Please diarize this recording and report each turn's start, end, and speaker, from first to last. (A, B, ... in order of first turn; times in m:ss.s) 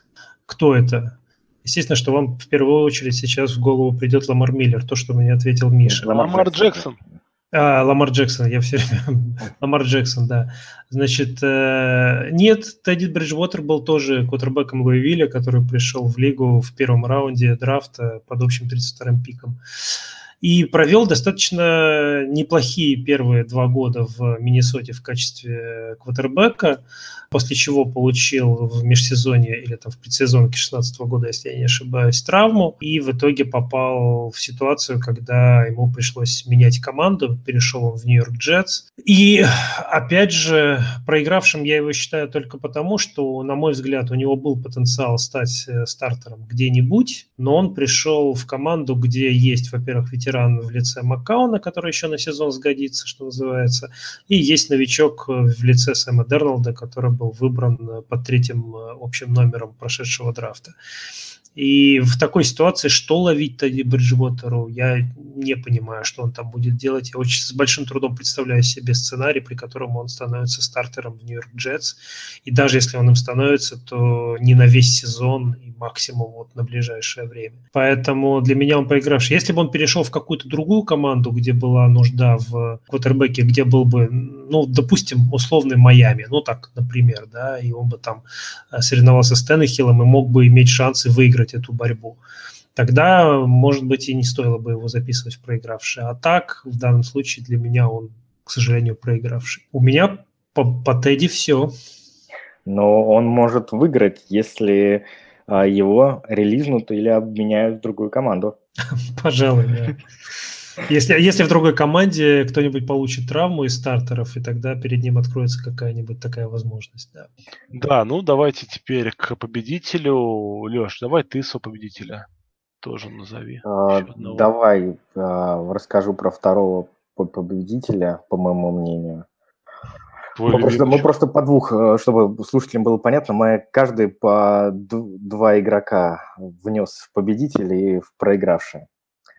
0:00.5-0:06.2 A
0:05.8-0:06.9 B
0:06.1-0:07.0 C
0:07.5-0:19.6 A
0:20.4-1:00.7 A
1:01.5-1:32.2 A
1:32.7-1:41.7 A
1:42.6-1:48.6 B
1:49.2-1:50.0 A
1:50.8-1:57.3 A
1:57.7-2:02.2 C
2:02.8-2:04.5 C
2:03.6-2:09.2 B
2:10.4-2:11.1 C
2:10.5-2:18.9 B